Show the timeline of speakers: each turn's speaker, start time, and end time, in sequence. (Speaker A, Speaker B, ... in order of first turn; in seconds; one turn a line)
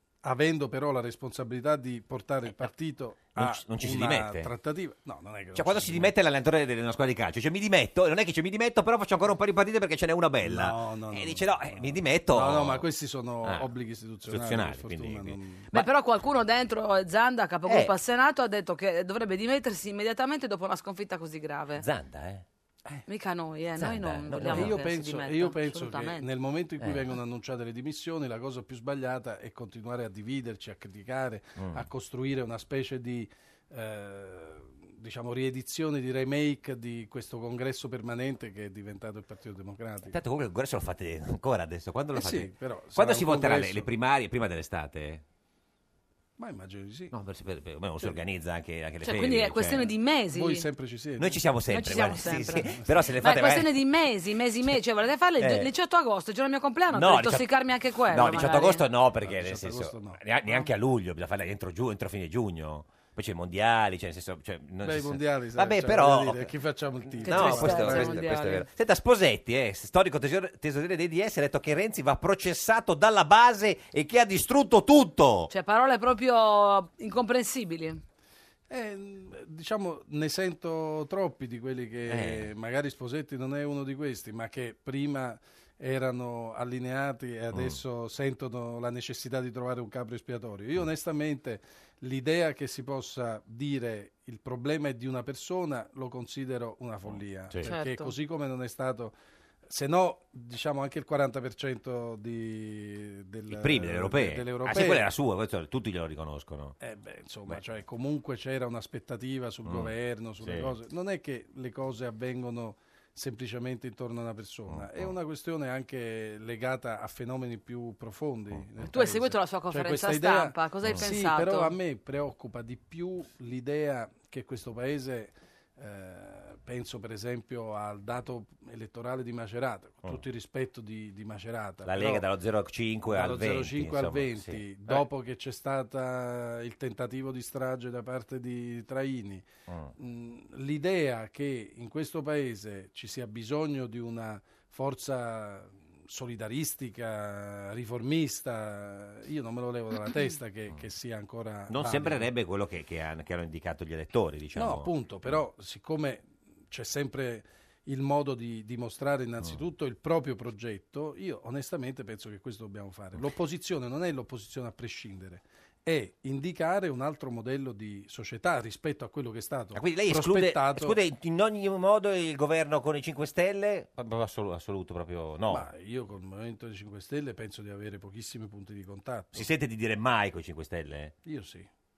Speaker A: 0.2-6.1
Speaker B: 3.3-4.5
Speaker B: 5.5-12.8
Speaker A: 10.4-15.7
Speaker B: 14.3-15.8
Speaker C: 15.7-21.8
Speaker B: 17.7-17.9
Speaker B: 21.8-22.4
Speaker C: 23.1-26.2
Speaker B: 23.8-24.8
Speaker A: 24.4-40.2
Speaker B: 26.8-27.1
Speaker B: 31.6-31.9
Speaker B: 40.1-45.2
Speaker A: 42.1-43.9
Speaker A: 46.4-47.1
Speaker B: 47.1-49.9
Speaker C: 49.0-50.6
Speaker A: 50.3-51.4
Speaker B: 51.2-53.7
Speaker C: 51.7-58.8
Speaker B: 55.4-55.7
Speaker B: 56.9-57.5
Speaker B: 58.1-66.5
Speaker A: 59.2-60.2
Speaker A: 64.8-68.3
Speaker B: 67.1-75.5
Speaker C: 67.2-68.7
Speaker C: 75.5-78.0
Speaker A: 78.7-99.1
Speaker B: 82.1-82.5
Speaker B: 87.5-87.8
Speaker B: 97.0-97.7
Speaker C: 97.6-98.1
Speaker A: 99.7-105.1
Speaker B: 103.5-106.8
Speaker A: 106.8-132.2
Speaker B: 109.6-110.7
Speaker B: 114.7-115.1
Speaker B: 118.5-118.8
Speaker C: 118.9-121.7
Speaker B: 131.8-135.0
Speaker A: 133.1-139.4
Speaker B: 139.7-139.9
Speaker A: 140.0-152.3
Speaker B: 151.7-155.4
Speaker A: 154.5-171.0
Speaker B: 169.7-175.7
Speaker A: 175.5-179.5
Speaker B: 179.3-181.1
Speaker A: 181.2-181.7